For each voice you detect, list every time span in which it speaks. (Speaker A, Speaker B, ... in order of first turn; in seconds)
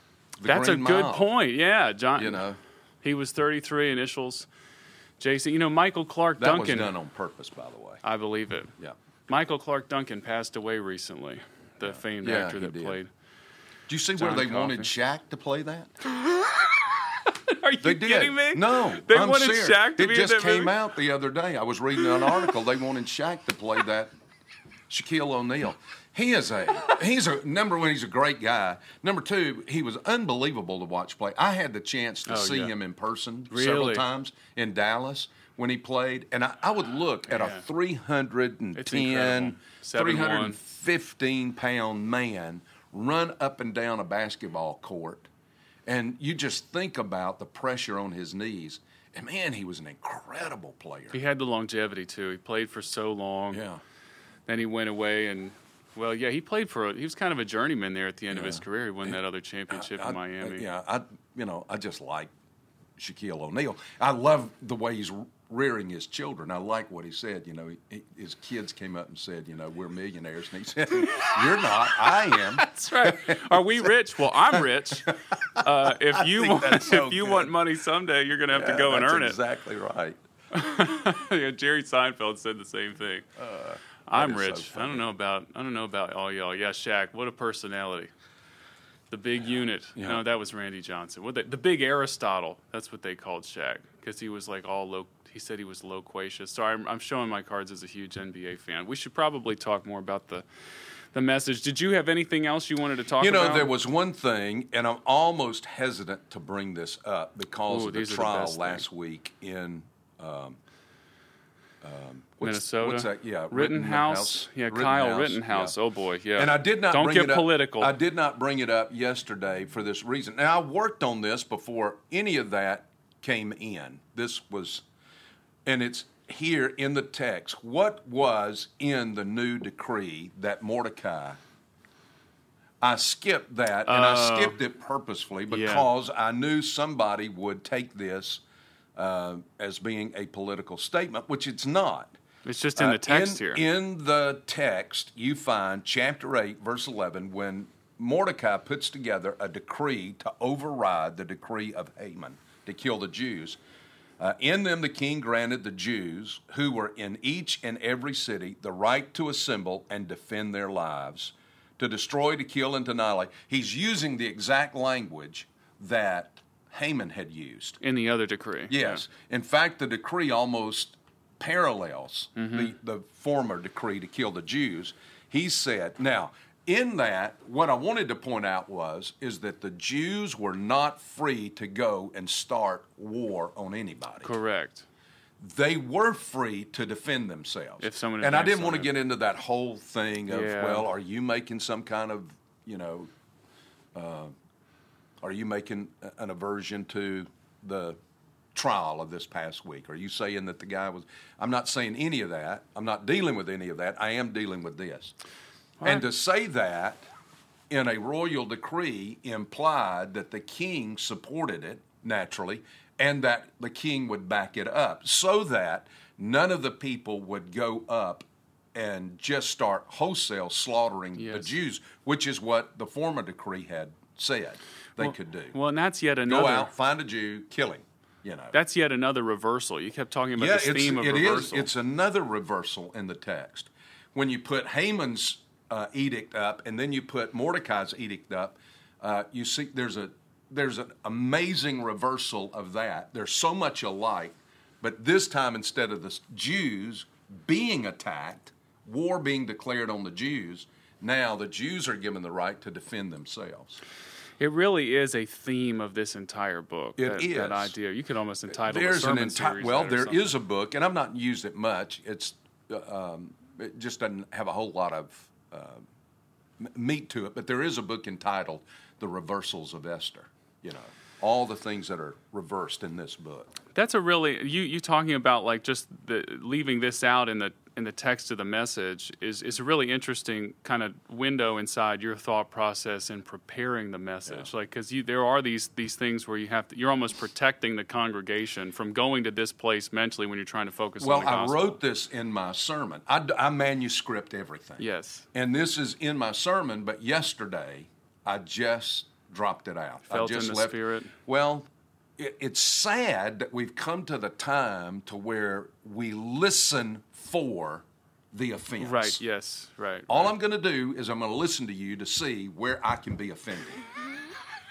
Speaker A: 0.4-1.3, 2.1-2.6, 6.4-8.0, 11.8-13.0, 13.9-15.9, 17.8-24.1, 24.9-45.3, 45.9-51.2, 53.5-53.8, 58.3-59.2, 59.7-62.3, 63.0-73.9, 74.5-77.5, 78.5-80.2, 83.4-85.0, 90.0-90.2, 103.2-110.6, 111.8-115.8, 116.3-124.8, 125.7-131.4, 132.8-138.4, 138.9-142.2, 142.8-153.6, 154.2-167.8, 168.7-184.3, 185.4-193.1, 193.9-194.3, 195.2-198.0, 198.5-205.1, 205.8-207.1, 207.7-225.5, 226.2-228.6, 230.3-253.8, 257.0-257.7, 258.5-265.9, 266.6-273.6, 291.0-309.2, 310.1-313.8
Speaker B: 0.4-2.4, 3.0-4.5, 5.2-6.9, 8.0-8.7, 9.3-13.1, 14.2-14.9, 16.3-16.7, 17.2-20.8, 22.2-22.4, 32.3-32.7, 33.5-34.0, 37.3-37.6, 38.8-40.6, 51.1-53.6, 54.5-60.6, 71.1-71.3, 72.1-79.4, 80.5-83.3, 84.1-88.1, 89.1-100.5, 101.1-103.7, 107.7-108.8, 112.4-117.9, 133.8-134.6, 135.5-135.9, 142.4-143.6, 167.8-169.0, 172.4-172.7, 184.2-184.8, 187.8-188.9, 190.3-190.9, 221.2-221.5, 225.0-226.7, 228.5-231.7, 254.4-260.3, 273.7-291.8, 294.8-295.2, 300.1-301.1, 308.8-310.3